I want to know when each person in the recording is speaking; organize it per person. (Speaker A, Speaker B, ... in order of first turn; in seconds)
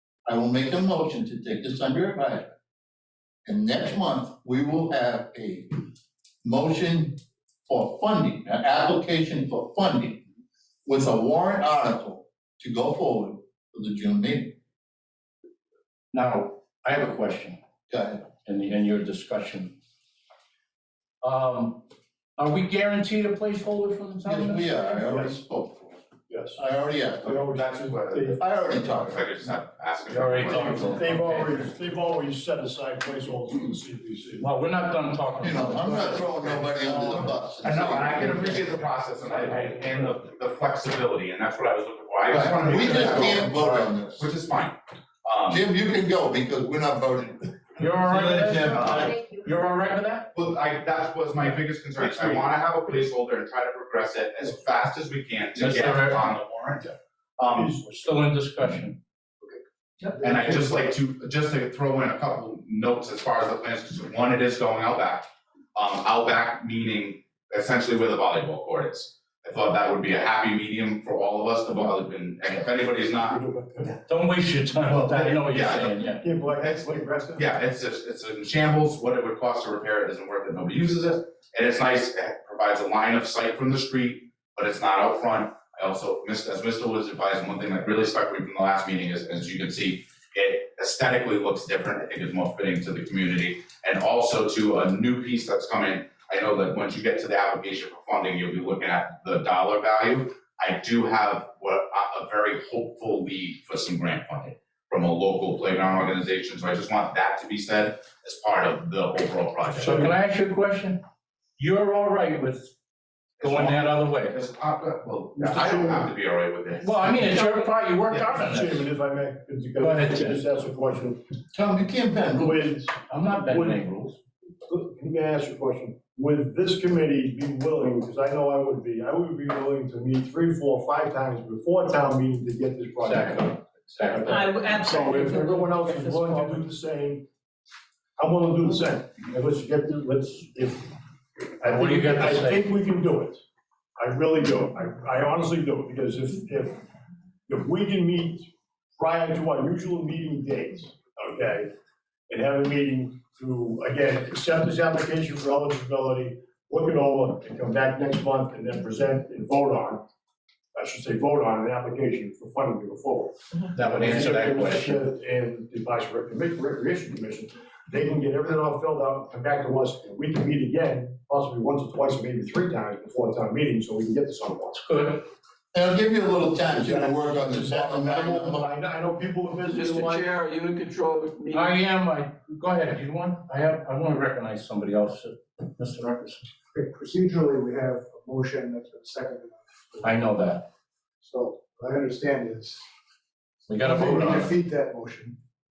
Speaker A: 0.2-2.5, 3.5-5.8, 6.4-10.2, 10.8-14.6, 17.9-18.3, 24.2-26.0, 26.6-27.5, 28.4-29.5, 35.4-38.6, 42.3-44.3, 45.5-49.1, 121.5-122.7, 175.7-178.7
Speaker B: 16.1-17.6, 18.4-19.8, 21.2-24.9, 30.1-31.7, 34.4-36.2, 47.8-50.3, 55.6-56.3, 57.9-59.0, 74.0-76.3, 109.8-111.0, 111.6-112.8, 113.4-114.4, 116.8-118.9, 119.8-120.4, 123.1-124.2, 133.0-134.4, 141.7-142.7, 163.7-164.9, 174.7-175.2, 181.5-186.4, 190.0-190.7, 193.7-194.6
Speaker C: 25.0-25.3, 26.3-26.6, 27.2-28.4, 30.4-34.5, 36.0-37.3, 42.9-43.7, 57.4-57.9, 73.2-74.0, 74.8-75.5, 76.2-77.5, 109.8-110.1, 115.3-116.1, 118.3-121.2, 122.4-123.8, 124.6-137.2, 138.2-140.9, 141.4-143.4, 144.0-146.8, 147.5-151.7, 152.3-160.0, 160.7-174.8, 176.6-180.3
Speaker D: 27.5-30.8, 37.6-45.6, 48.7-49.2, 50.3-57.8, 60.2-73.4, 75.4-75.9, 76.6-110.1, 113.4-117.4, 118.1-118.4
Speaker E: 179.7-181.8
Speaker F: 186.7-190.0, 191.2-192.8, 193.8-195.4